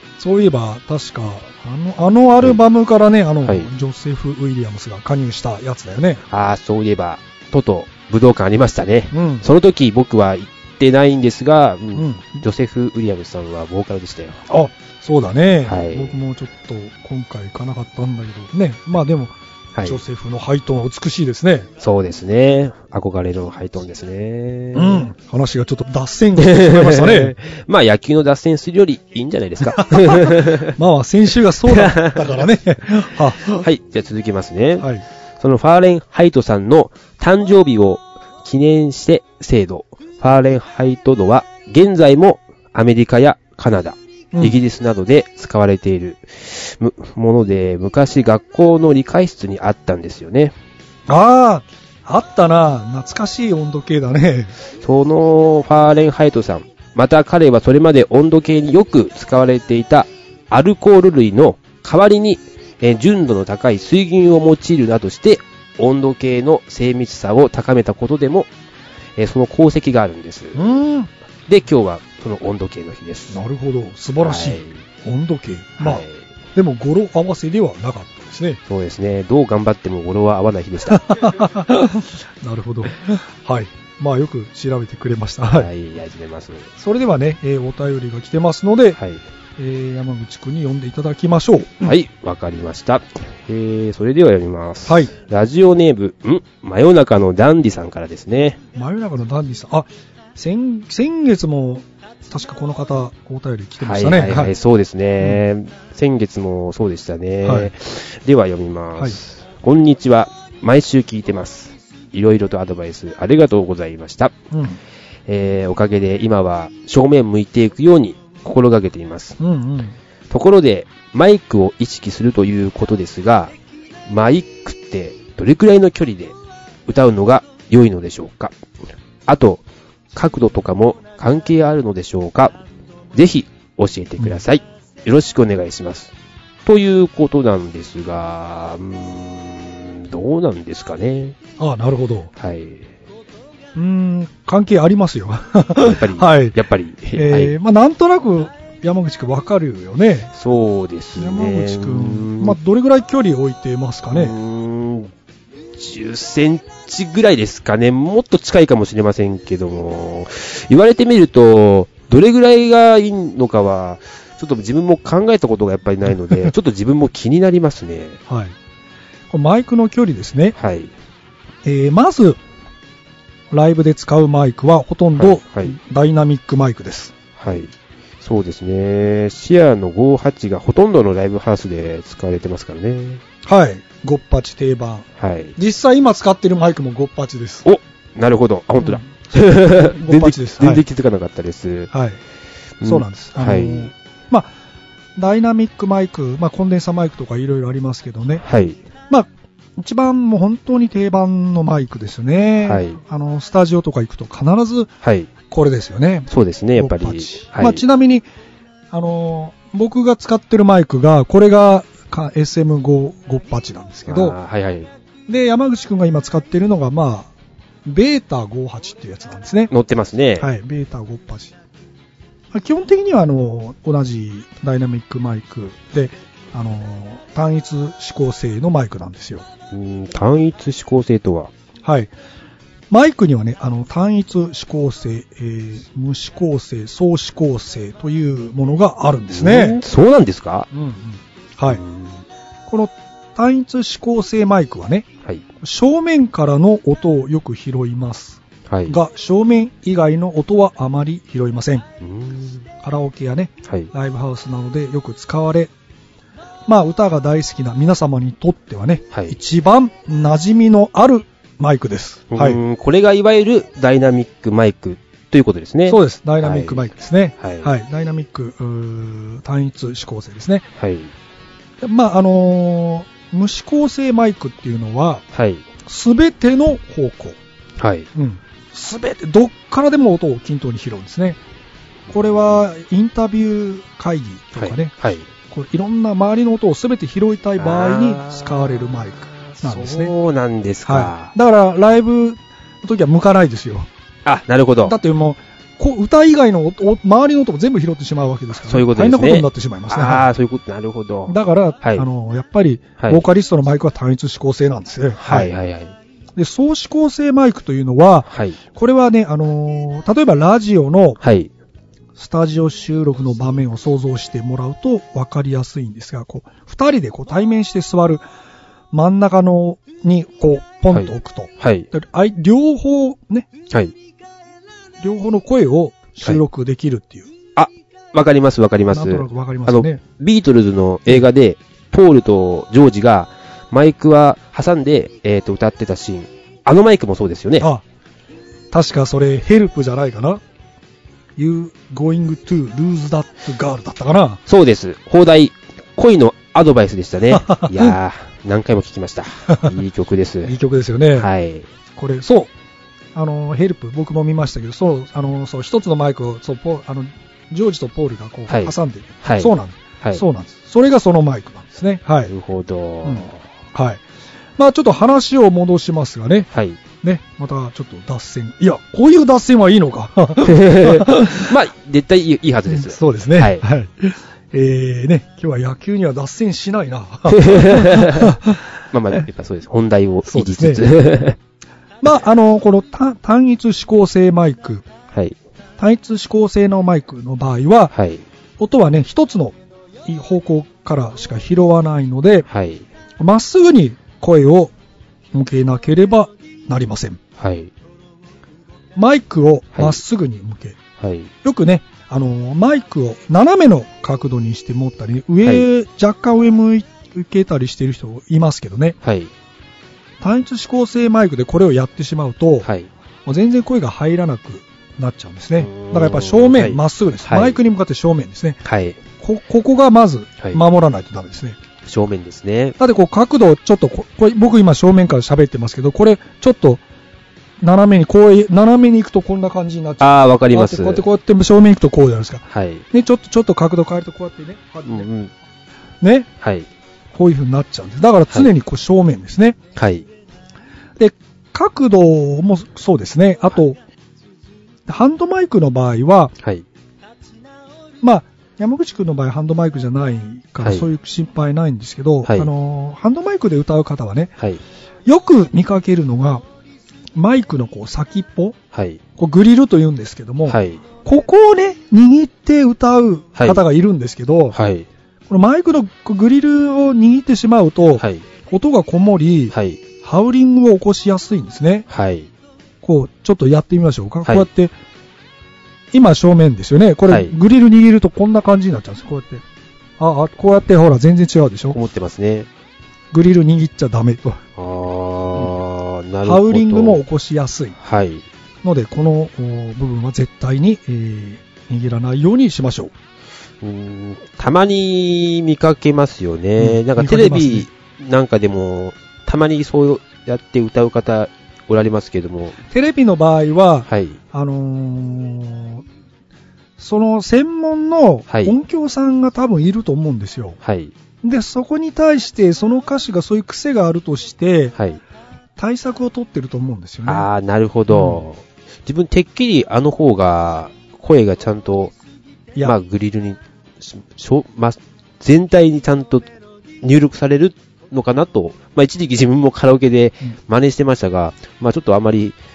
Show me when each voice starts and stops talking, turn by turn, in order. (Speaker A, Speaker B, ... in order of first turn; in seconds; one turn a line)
Speaker A: 0.2-6.2
Speaker B: 3.4-3.7
Speaker B: 6.3-14.4
Speaker A: 9.1-9.4
Speaker A: 11.9-12.4
Speaker A: 14.5-21.7
Speaker B: 15.6-16.2
Speaker B: 19.7-20.0
Speaker B: 21.8-25.1
Speaker A: 24.7-27.3
Speaker B: 26.4-30.7
Speaker A: 29.8-33.6
Speaker B: 31.7-32.4
Speaker B: 33.5-34.9
Speaker A: 34.8-35.0
Speaker B: 35.4-50.5
Speaker A: 44.3-44.6
Speaker A: 51.1-54.5
Speaker B: 54.8-68.5
Speaker B: 69.2-70.6
Speaker A: 70.5-71.1
Speaker B: 71.5-73.4
Speaker A: 73.3-76.0
Speaker B: 74.2-74.8
Speaker B: 75.8-76.3
Speaker A: 76.5-78.6
Speaker B: 78.7-81.2
Speaker A: 80.9-85.7
Speaker B: 85.5-86.7
Speaker A: 86.8-89.0
Speaker B: 89.0-89.2
Speaker A: 89.6-91.9
Speaker B: 91.8-98.6
Speaker A: 94.8-95.1
Speaker A: 98.7-104.5
Speaker B: 103.8-114.3
Speaker A: 107.4-107.7
Speaker A: 114.5-114.8
Speaker B: 115.3-119.4
Speaker A: 119.4-120.0
Speaker B: 120.3-123.5
Speaker B: 124.1-126.3
Speaker B: 126.9-128.5
Speaker B: 129.3-129.6
Speaker B: 130.1-132.6
Speaker B: 133.1-136.1
Speaker B: 136.6-141.4
Speaker A: 141.6-142.3
Speaker B: 142.3-142.9
Speaker A: 143.7-146.6
Speaker B: 145.8-147.5
Speaker A: 147.1-150.3
Speaker B: 150.3-152.6
Speaker A: 151.2-154.3
Speaker B: 154.1-155.1
Speaker B: 155.7-168.2
Speaker A: 168.3-168.6
Speaker A: 169.3-170.6
Speaker B: 170.6-170.9
Speaker A: 171.6-172.4
Speaker A: 173.5-177.1
Speaker B: 175.2-175.8
Speaker B: 177.4-183.2
Speaker A: 183.4-187.6
Speaker B: 185.2-185.5
Speaker B: 187.6-191.9
Speaker A: 188.8-190.8
Speaker A: 191.9-192.2
Speaker B: 192.8-193.9
Speaker A: 192.8-194.5
Speaker A: 195.2-198.4
Speaker B: 198.4-198.8
Speaker A: 199.1-204.9
Speaker B: 202.6-203.0
Speaker B: 205.0-205.3
Speaker A: 205.5-208.2
Speaker B: 206.3-207.8
Speaker A: 208.9-214.3
Speaker B: 214.1-214.9
Speaker A: 215.3-217.3
Speaker A: 217.8-219.7
Speaker B: 219.7-220.5
Speaker A: 220.4-221.5
Speaker A: 222.5-229.4
Speaker B: 229.7-231.5
Speaker A: 231.8-232.1
Speaker A: 232.9-239.8
Speaker B: 239.3-240.7
Speaker A: 240.7-241.8
Speaker B: 241.7-242.2
Speaker A: 242.7-245.1
Speaker A: 245.6-251.9
Speaker B: 248.7-248.9
Speaker B: 252.0-252.6
Speaker A: 252.8-255.7
Speaker B: 253.6-253.9
Speaker A: 256.7-262.6
Speaker B: 259.1-259.4
Speaker B: 262.3-266.9
Speaker A: 265.9-270.7
Speaker B: 267.4-267.7
Speaker B: 270.8-271.1
Speaker A: 271.8-275.2
Speaker B: 275.3-275.6
Speaker A: 275.8-277.4
Speaker B: 277.8-278.1
Speaker A: 278.1-281.4
Speaker B: 282.1-282.6
Speaker A: 282.1-284.9
Speaker B: 284.5-285.3
Speaker A: 285.5-290.1
Speaker B: 287.6-291.3
Speaker A: 290.8-293.9
Speaker B: 294.2-295.0
Speaker A: 294.8-300.3
Speaker B: 298.5-302.1
Speaker A: 301.3-305.5
Speaker B: 303.0-303.2
Speaker B: 305.1-305.9
Speaker A: 306.4-311.2
Speaker B: 308.3-308.6
Speaker B: 311.2-311.5
Speaker A: 312.1-318.2
Speaker A: 318.9-323.5
Speaker B: 320.9-321.9
Speaker A: 325.0-327.3
Speaker B: 327.6-337.7
Speaker A: 328.9-330.0
Speaker A: 338.7-340.4
Speaker A: 341.4-344.4
Speaker B: 344.5-350.6
Speaker A: 347.3-347.9
Speaker A: 350.4-351.3
Speaker B: 351.1-351.7
Speaker A: 351.9-352.5
Speaker A: 353.1-362.3
Speaker B: 358.5-360.2
Speaker B: 362.3-363.4
Speaker A: 363.0-364.0
Speaker A: 364.6-366.5
Speaker B: 366.5-366.8
Speaker A: 367.0-371.5
Speaker B: 370.4-373.6
Speaker A: 372.7-379.2
Speaker B: 377.3-378.4
Speaker B: 378.9-381.4
Speaker A: 380.2-380.9
Speaker A: 382.0-384.9
Speaker B: 385.1-385.4
Speaker A: 385.8-387.9
Speaker B: 387.9-388.2
Speaker A: 388.6-392.5
Speaker B: 392.5-392.9
Speaker A: 393.2-394.7
Speaker A: 395.3-397.2
Speaker B: 397.4-397.7
Speaker A: 398.9-400.8
Speaker B: 399.7-400.0
Speaker B: 401.0-401.3
Speaker A: 401.4-409.0
Speaker B: 409.0-409.3
Speaker A: 410.2-412.7
Speaker B: 412.6-412.9
Speaker A: 413.2-418.6
Speaker B: 415.6-417.6
Speaker B: 418.6-419.0
Speaker A: 419.2-421.6
Speaker B: 421.8-422.8
Speaker A: 422.8-426.8
Speaker A: 427.6-435.1
Speaker B: 430.0-431.0
Speaker B: 432.5-432.8
Speaker B: 434.8-435.3
Speaker A: 436.0-436.3
Speaker B: 436.4-436.7
Speaker A: 437.1-439.6
Speaker B: 439.7-440.1
Speaker A: 441.0-443.8
Speaker A: 444.9-446.3
Speaker A: 448.0-454.3
Speaker B: 450.6-450.9
Speaker B: 452.2-452.5
Speaker A: 455.1-456.4
Speaker A: 457.1-458.6
Speaker B: 458.7-459.0
Speaker A: 459.1-464.6
Speaker B: 460.4-460.8
Speaker B: 463.4-463.6
Speaker B: 464.5-464.9
Speaker A: 465.3-471.9
Speaker B: 467.9-468.2
Speaker B: 469.5-469.8
Speaker B: 471.9-472.3
Speaker A: 472.8-474.7
Speaker A: 475.9-479.4
Speaker B: 477.1-477.4
Speaker A: 480.0-481.8
Speaker B: 481.7-482.5
Speaker A: 483.1-484.4
Speaker B: 484.6-487.0
Speaker A: 486.2-487.8
Speaker B: 487.8-488.2
Speaker A: 488.6-492.9
Speaker B: 493.6-502.6
Speaker A: 496.6-497.7
Speaker A: 502.7-505.8
Speaker B: 503.9-504.2
Speaker A: 506.8-510.6
Speaker B: 508.3-508.5
Speaker B: 510.6-510.9
Speaker A: 511.2-514.7
Speaker B: 514.7-515.0
Speaker A: 515.6-517.3
Speaker B: 517.0-521.9
Speaker A: 517.9-518.2
Speaker B: 522.6-526.3
Speaker B: 526.8-532.4